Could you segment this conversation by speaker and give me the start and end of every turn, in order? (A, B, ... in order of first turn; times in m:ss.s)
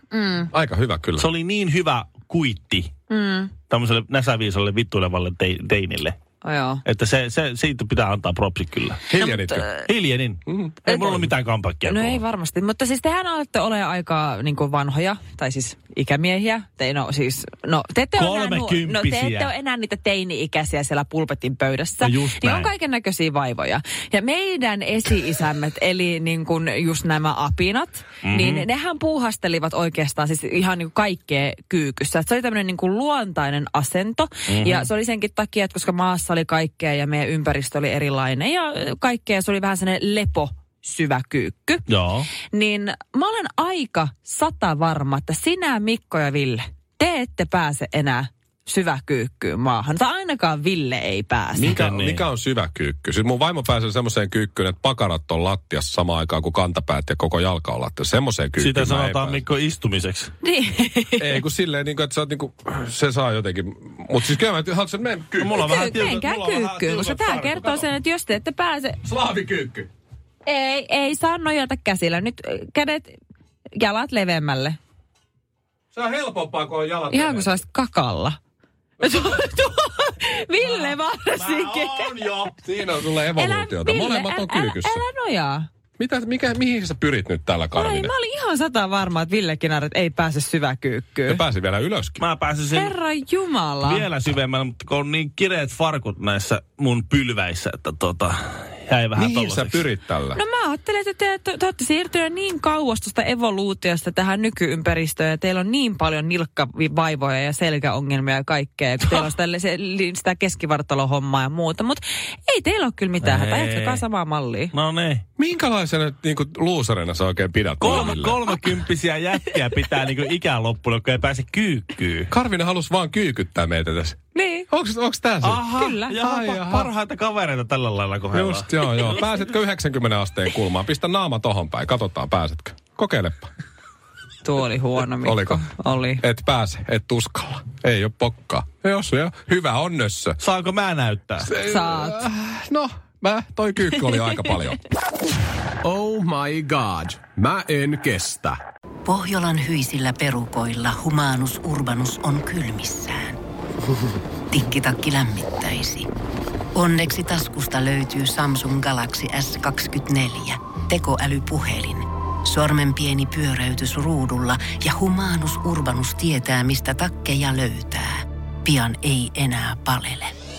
0:00.1-0:00.5 A
0:00.5-0:01.3 B
0:01.2-0:02.9 C
0:03.1-0:03.5 A
0:03.7-0:06.2 C
0:06.4-0:06.8 A
0:06.8-0:09.0 C
0:09.1-0:09.7 B
0:09.2-0:09.9 A
0:09.8-0:12.2 C
0:10.5-0:10.8 B
0:10.8-0:11.3 A
0:11.8-0:41.9 A
0:18.2-0:19.5 C
0:22.0-0:22.7 C
0:28.2-0:28.7 C
0:34.5-0:34.9 C
0:41.9-0:42.3 C
0:42.5-0:51.7 A
0:51.5-0:59.4 B
0:51.7-0:52.3 C
0:58.6-1:00.3 C
1:00.4-1:01.4 A
1:01.2-1:06.0 B
1:05.4-1:07.9 C
1:05.6-1:09.0 A
1:09.0-1:09.9 B
1:10.5-1:13.2 A
1:13.8-1:14.8 A
1:15.9-1:17.6 B
1:17.1-1:18.4 A
1:19.0-1:22.2 A
1:20.8-1:22.5 C
1:22.6-1:25.0 B
1:23.4-1:25.7 A
1:26.0-1:28.1 B
1:27.7-1:31.4 A
1:31.3-1:32.2 B
1:32.2-1:33.0 C
1:32.7-1:34.1 A
1:33.8-1:39.8 C
1:39.2-1:40.4 B
1:40.3-1:54.7 A
1:53.2-1:54.0 C
1:54.7-1:55.2 C
1:55.4-1:58.4 B
1:57.8-2:02.3 C
1:57.9-1:58.1 A
2:02.3-2:04.2 B
2:04.3-2:04.7 A
2:04.7-2:06.9 B
2:05.4-2:09.3 C
2:05.7-2:06.2 A
2:08.3-2:13.5 B
2:14.4-2:16.2 A
2:15.2-2:15.7 B
2:16.2-2:20.4 B
2:20.4-2:21.5 C
2:21.4-2:24.8 B
2:21.6-2:22.3 A
2:25.8-2:28.6 D
2:29.0-2:33.4 E
2:34.5-2:36.1 E
2:36.8-2:50.3 E